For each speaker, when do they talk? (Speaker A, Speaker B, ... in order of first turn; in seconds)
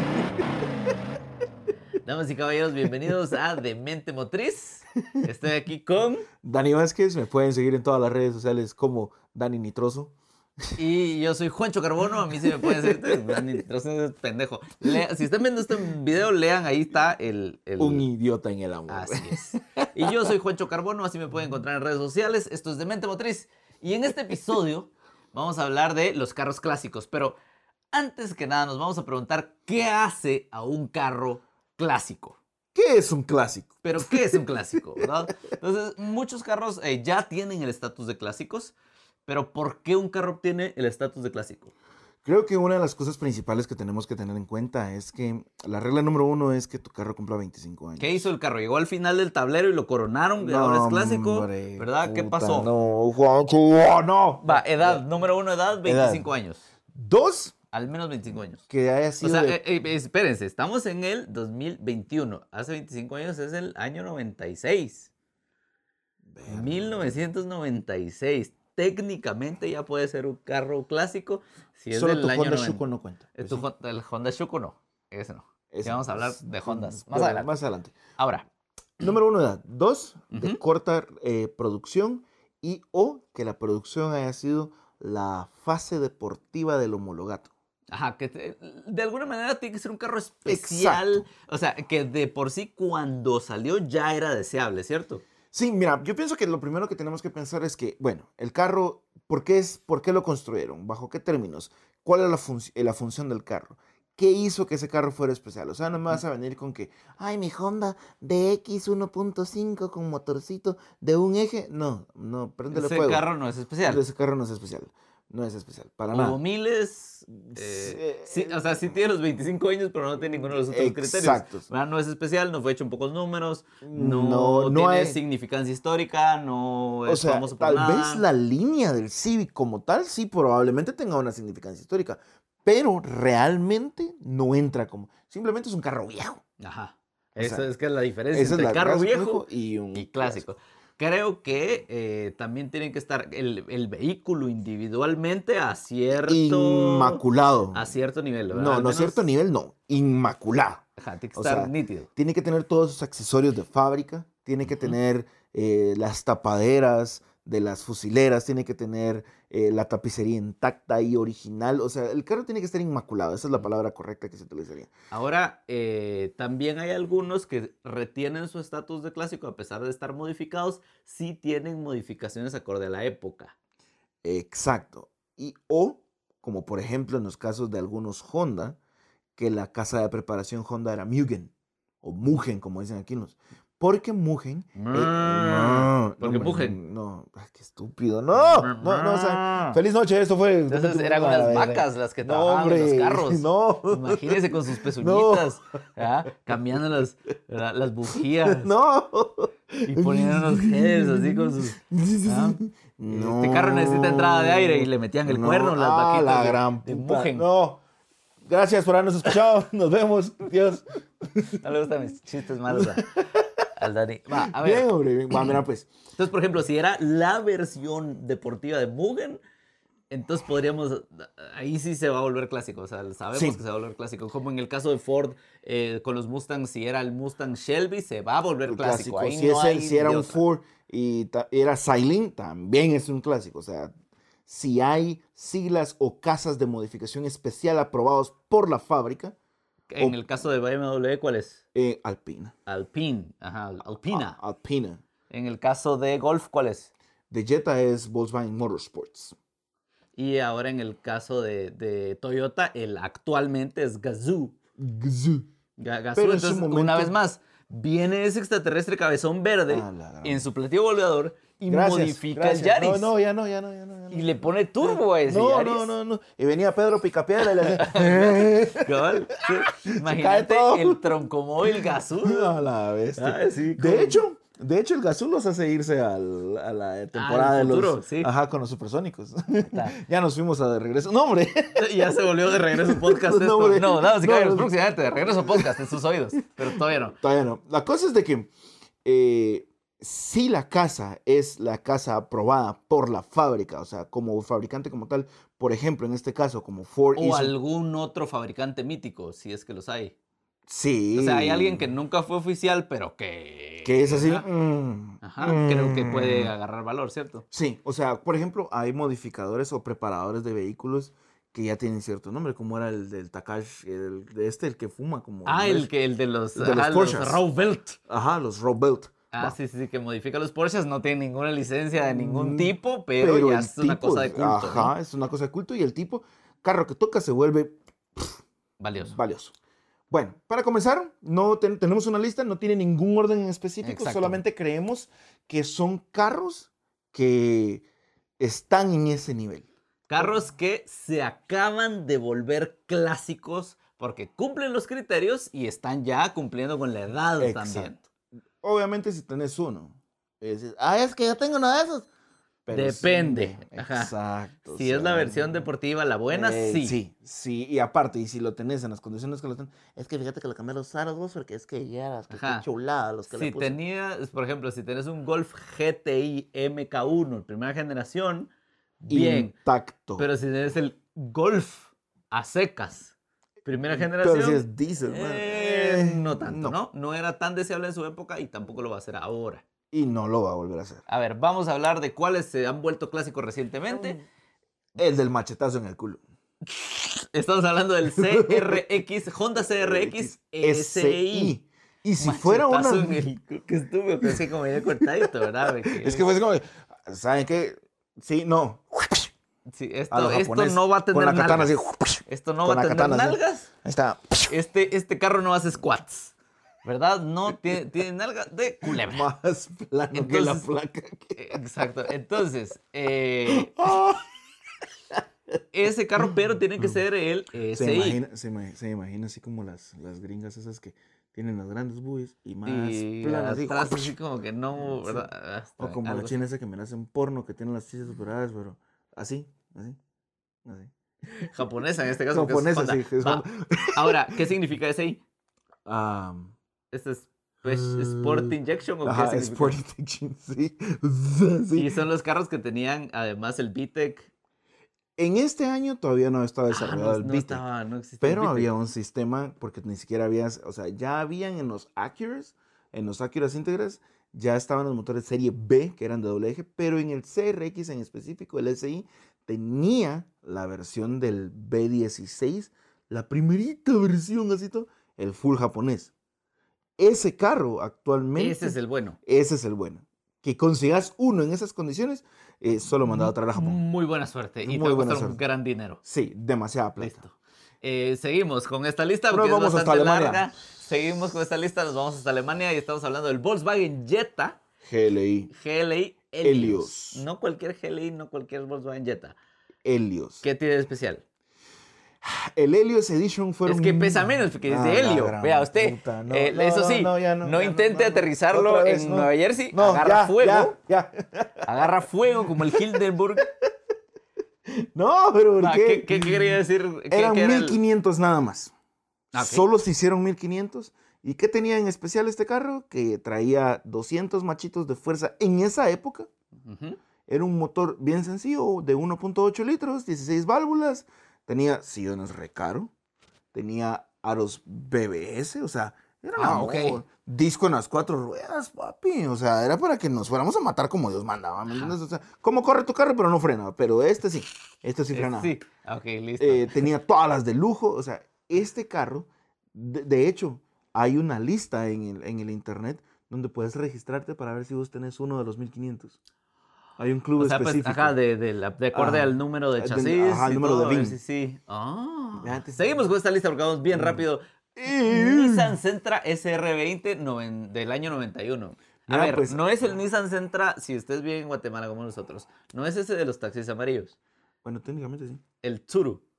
Speaker A: 2.0-6.3, 10.8-18.0, 18.9-27.4, 27.9-32.4, 33.8-38.7, 39.3-41.7, 48.0-52.7, 54.4-56.6, 57.7-58.6, 59.2-65.1, 66.5-72.8, 73.4-77.5, 78.2-78.5, 80.3-80.6, 87.9-95.2, 112.7-114.0, 116.1-128.2, 136.6-149.2, 151.0-152.1, 165.1-173.5, 184.8-186.8, 188.3-189.8, 190.7-198.7, 199.8-207.4, 211.6-213.1, 213.8-215.5, 216.2-219.4, 220.1-230.4, 239.9-241.6, 242.7-244.4, 245.3-246.9, 250.2-254.6, 255.8-263.1, 264.1-265.9, 267.6-272.5, 273.1-274.2, 277.1-278.3, 279.7-280.0, 281.7-287.2, 297.1-300.1, 301.1-304.4, 305.2-307.4, 315.4-318.0, 319.3-324.9, 328.8-329.2, 333.8-334.4, 340.1-348.0, 352.7-354.1, 354.7-357.0, 362.3-362.7, 363.3-368.5, 369.0-369.5, 370.2-379.6, 381.1-384.2, 386.7-391.6, 392.2-396.3, 399.7-401.7, 402.2-403.7, 404.5-406.3, 406.8-409.3, 410.1-410.6, 411.4-413.8, 415.7-418.2, 422.6-426.4, 431.4-435.2, 436.9-439.8, 441.7-444.3, 446.7-448.7, 468.4-469.2, 473.1-476.0, 477.0-484.6, 485.5-489.4, 490.4-491.2, 493.6-500.7, 501.6-503.5, 505.6-507.8, 509.3-509.6, 516.6-517.0, 526.4-527.0, 531.7-532.0, 535.1-536.8, 547.4-564.1, 565.6-566.2
Speaker B: 6.4-10.1, 12.3-13.4, 17.8-19.9, 32.7-34.3, 42.2-48.3, 50.4-55.0, 55.8-56.3, 56.9-57.5, 58.7-59.6, 66.3-67.2, 71.9-73.7, 75.7-78.0, 79.0-87.5, 90.4-91.2, 95.5-113.3, 113.8-116.4, 117.4-119.0, 120.2-121.7, 123.8-125.2, 127.1-136.4, 137.4-137.7, 138.3-140.4, 146.3-147.9, 148.5-164.9, 174.2-178.8, 179.4-195.5, 198.4-207.8, 208.4-211.6, 212.7-213.7, 214.4-215.9, 223.3-223.6, 228.7-233.9, 234.5-239.3, 241.7-242.5, 244.1-245.0, 247.3-249.3, 254.8-255.5, 256.1-257.1, 259.7-260.5, 261.6-271.1, 271.7-286.0, 286.6-288.5, 289.0-297.5, 300.7-301.9, 303.8-306.5, 307.5-315.9, 316.6-317.4, 318.1-319.6, 322.0-328.4, 329.1-329.5, 330.1-337.8, 338.4-339.6, 347.4-347.9, 348.6-352.1, 352.6-355.7, 356.3-363.8, 369.1-370.3, 373.9-376.8, 379.9-381.0, 383.9-384.2, 384.9-386.2, 388.1-388.8, 389.6-393.3, 394.2-395.3, 395.9-399.3, 400.1-404.5, 408.8-411.6, 413.5-414.3, 416.2-417.0, 417.7-424.1, 424.9-425.3, 425.8-430.0, 430.6-430.9, 432.3-434.3, 435.8-436.5, 437.6-441.9, 445.2-447.6, 448.2-466.1, 467.0-473.8, 474.6-475.4, 476.0-477.2, 479.3-480.5, 484.8-485.5, 486.4-487.2, 489.8-490.4, 492.2-501.7, 502.5-503.1, 504.7-508.7, 509.3-516.3, 517.3-522.9, 523.5-535.5, 536.4-546.2, 547.0-548.2, 548.9-551.2, 552.4-553.0, 553.9-554.2, 554.8-555.8, 559.1-559.6, 564.6-565.4